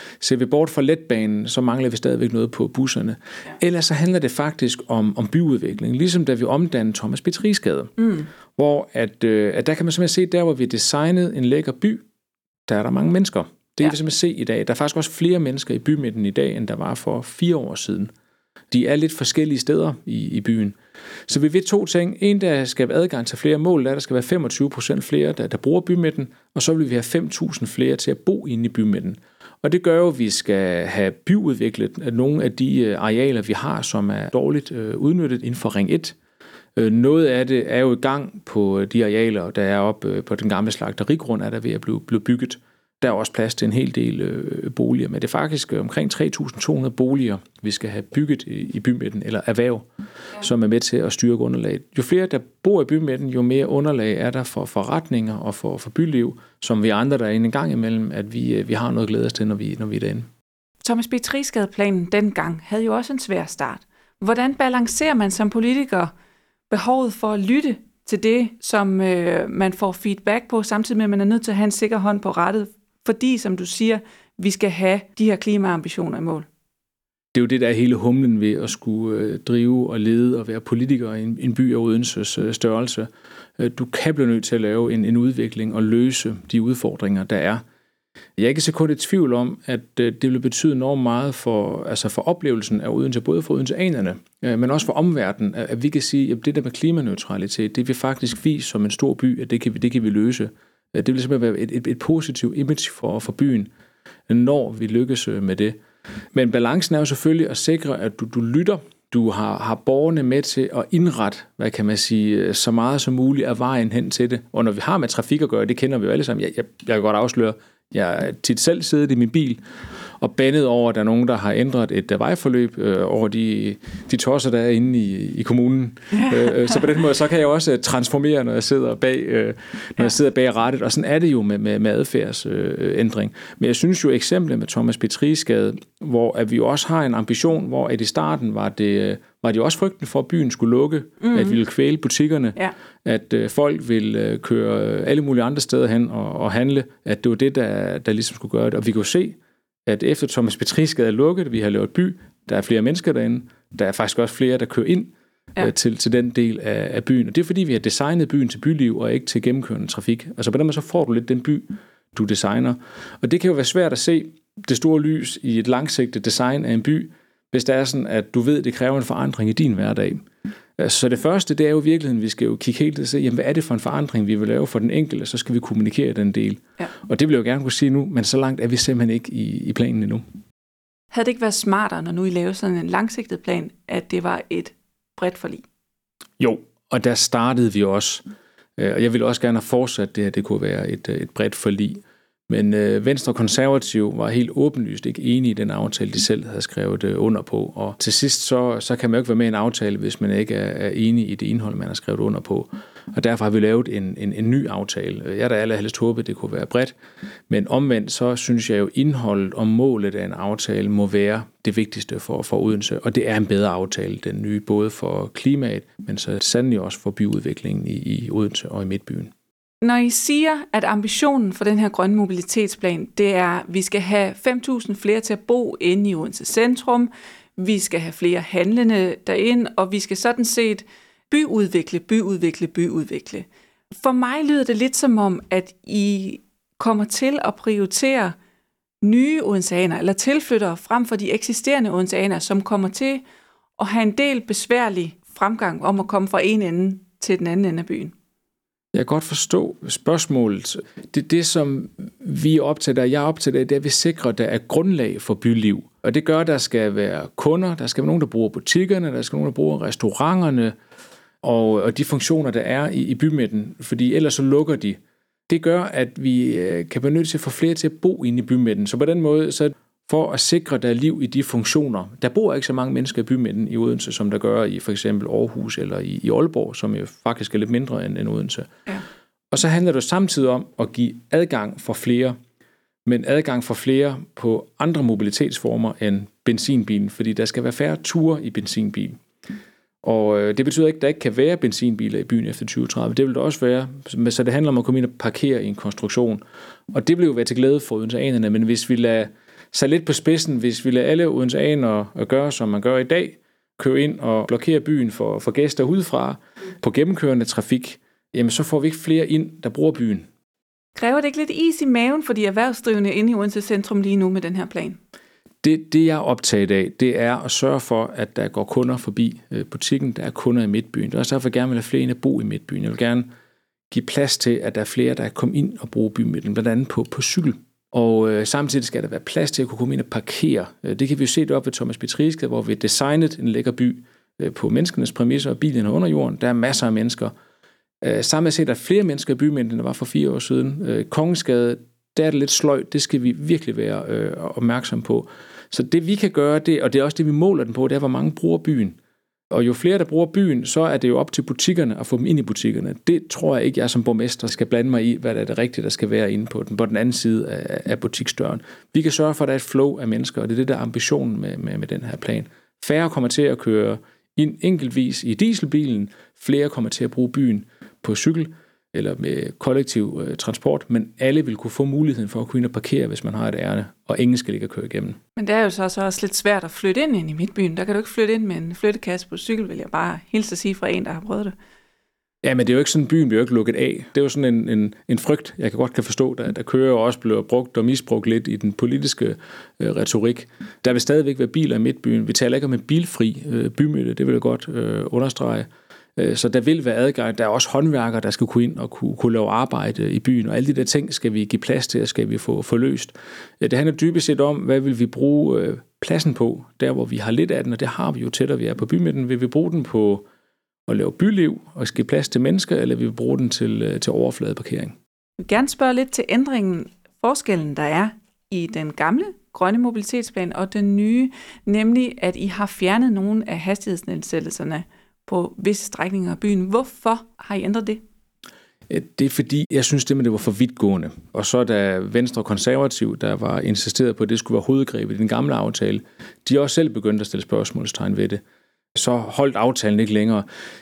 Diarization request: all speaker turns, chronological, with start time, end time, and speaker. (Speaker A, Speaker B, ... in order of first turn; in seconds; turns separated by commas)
Speaker A: 0.2-7.9, Speaker B: 8.0-8.3, Speaker A: 8.5-12.0, Speaker A: 12.7-18.1, Speaker A: 18.7-20.8, Speaker A: 21.3-36.1, Speaker A: 36.8-49.9, Speaker A: 50.4-60.3, Speaker B: 60.8-66.1, Speaker B: 66.7-76.5, Speaker A: 77.3-87.6, Speaker A: 88.4-103.7, Speaker A: 104.3-105.8, Speaker A: 106.3-119.6, Speaker A: 120.2-170.2, Speaker B: 141.2-141.6, Speaker A: 170.8-180.2, Speaker B: 181.1-185.6, Speaker A: 186.4-188.2, Speaker A: 188.8-206.9, Speaker A: 207.5-219.3, Speaker B: 219.8-238.3, Speaker B: 239.0-243.2, Speaker B: 243.8-248.1, Speaker A: 248.9-260.7, Speaker A: 261.4-265.0, Speaker A: 265.5-278.7, Speaker A: 279.5-282.4, Speaker A: 283.0-289.2, Speaker A: 290.0-310.3, Speaker B: 310.9-315.0, Speaker A: 315.6-323.3, Speaker A: 323.9-337.3, Speaker A: 338.0-349.0, Speaker A: 349.5-375.2, Speaker B: 375.4-381.5, Speaker A: 382.4-410.2, Speaker A: 410.9-414.9, Speaker B: 415.4-428.0, Speaker A: 428.9-438.4, Speaker A: 438.9-440.4